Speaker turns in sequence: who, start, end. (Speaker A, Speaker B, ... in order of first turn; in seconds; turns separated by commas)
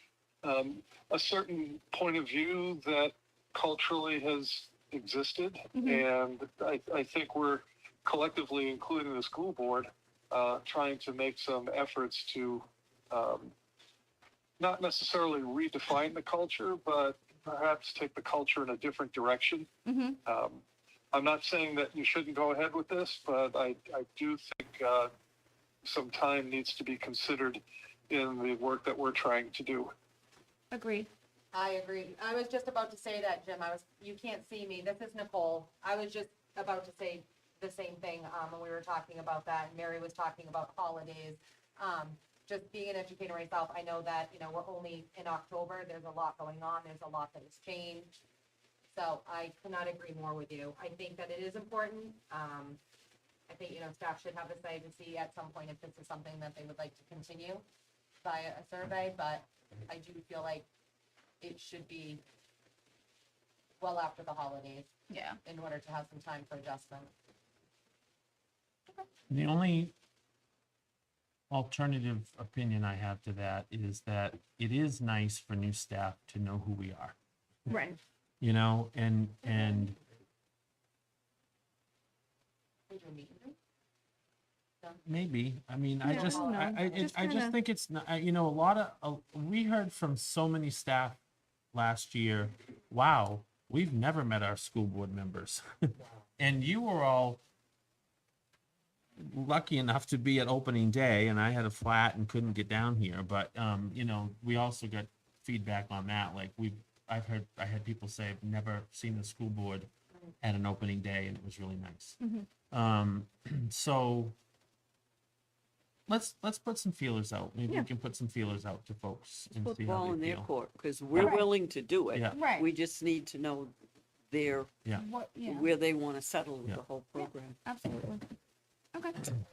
Speaker A: 0.4-13.5, Speaker B: 5.7-6.0, Speaker A: 14.6-19.7, Speaker B: 19.9-20.2, Speaker A: 20.2-25.1, Speaker A: 25.8-29.9, Speaker B: 30.7-31.1, Speaker C: 31.5-48.2, Speaker C: 48.9-52.8, Speaker C: 53.5-57.6, Speaker C: 58.2-60.6, Speaker C: 61.4-62.2, Speaker C: 63.8-64.9, Speaker B: 65.1-65.4, Speaker C: 65.4-67.1, Speaker D: 69.3-69.9, Speaker D: 71.5-77.1, Speaker B: 77.7-78.0, Speaker D: 78.4-79.9, Speaker C: 79.5-79.8, Speaker C: 82.9-83.5, Speaker D: 85.0-91.2, Speaker B: 86.0-87.5, Speaker C: 86.1-87.1, Speaker D: 91.7-95.6, Speaker D: 96.4-97.4, Speaker D: 99.2-109.9, Speaker D: 110.4-112.2, Speaker B: 112.2-112.5, Speaker D: 112.7-114.3, Speaker D: 116.1-120.5, Speaker E: 119.6-123.7, Speaker D: 121.1-121.4, Speaker B: 121.2-121.5, Speaker D: 122.1-122.4, Speaker B: 122.3-122.7, Speaker E: 124.3-124.8, Speaker B: 124.9-125.7, Speaker E: 125.4-127.6, Speaker B: 127.2-128.3, Speaker B: 128.9-129.3